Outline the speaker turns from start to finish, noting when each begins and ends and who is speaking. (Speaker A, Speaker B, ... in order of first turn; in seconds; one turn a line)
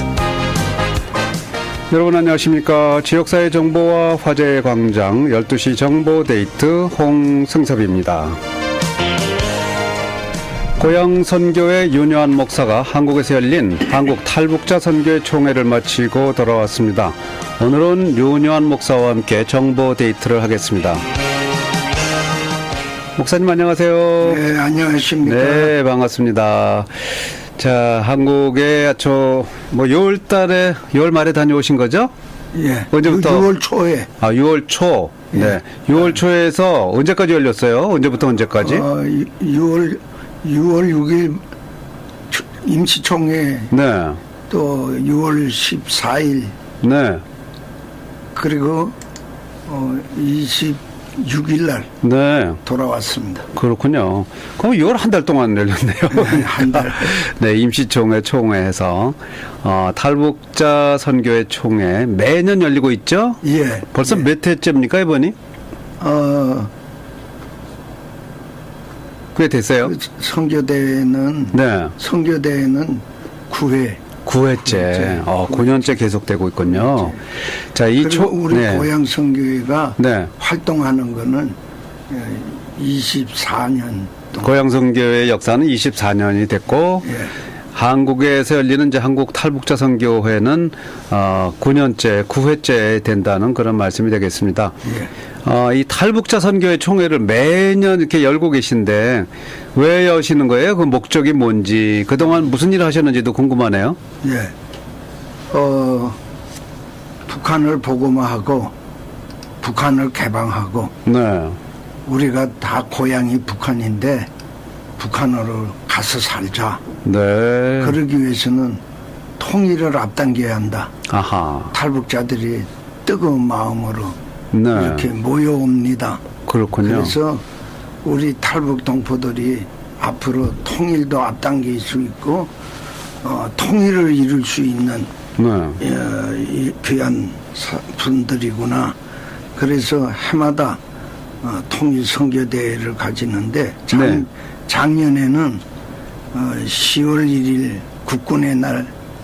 Speaker A: 1.9-8.4
Speaker A: 10.8-21.0
Speaker A: 23.1-24.4
Speaker B: 24.2-25.7
Speaker A: 25.2-32.1
Speaker B: 32.5-34.1
Speaker A: 32.9-33.5
Speaker A: 34.2-38.8
Speaker B: 35.3-36.1
Speaker B: 38.6-41.4
Speaker B: 42.3-43.7
Speaker A: 43.7-44.2
Speaker B: 44.5-46.5
Speaker A: 46.8-47.2
Speaker B: 48.3-49.0
Speaker B: 49.7-51.9
Speaker A: 52.0-52.6
Speaker B: 52.6-53.5
Speaker A: 53.5-63.4
Speaker B: 56.1-57.2
Speaker B: 63.4-64.2
Speaker A: 63.9-65.3
Speaker B: 66.0-66.7
Speaker A: 69.3-69.9
Speaker B: 69.8-74.1
Speaker A: 71.5-71.9
Speaker A: 74.2-78.9
Speaker B: 74.6-75.8
Speaker B: 76.7-77.2
Speaker B: 78.0-81.5
Speaker A: 80.0-80.3
Speaker B: 82.1-84.5
Speaker A: 84.4-87.1
Speaker B: 87.0-87.3
Speaker A: 87.7-94.8
Speaker B: 94.8-95.1
Speaker A: 95.4-104.0
Speaker B: 104.2-104.5
Speaker B: 105.5-106.2
Speaker B: 107.3-108.7
Speaker B: 109.6-110.9
Speaker A: 111.0-111.6
Speaker B: 112.1-114.3
Speaker B: 115.0-116.8
Speaker A: 117.0-118.0
Speaker B: 117.8-118.8
Speaker B: 119.4-120.9
Speaker A: 121.1-121.7
Speaker B: 121.7-124.2
Speaker A: 124.5-125.1
Speaker B: 124.7-126.2
Speaker A: 126.5-127.1
Speaker B: 126.8-127.4
Speaker B: 128.0-132.5
Speaker B: 133.2-135.1
Speaker A: 135.4-135.8
Speaker B: 135.8-139.0
Speaker B: 139.6-140.8
Speaker B: 141.4-145.6
Speaker A: 143.9-144.2
Speaker B: 146.3-148.9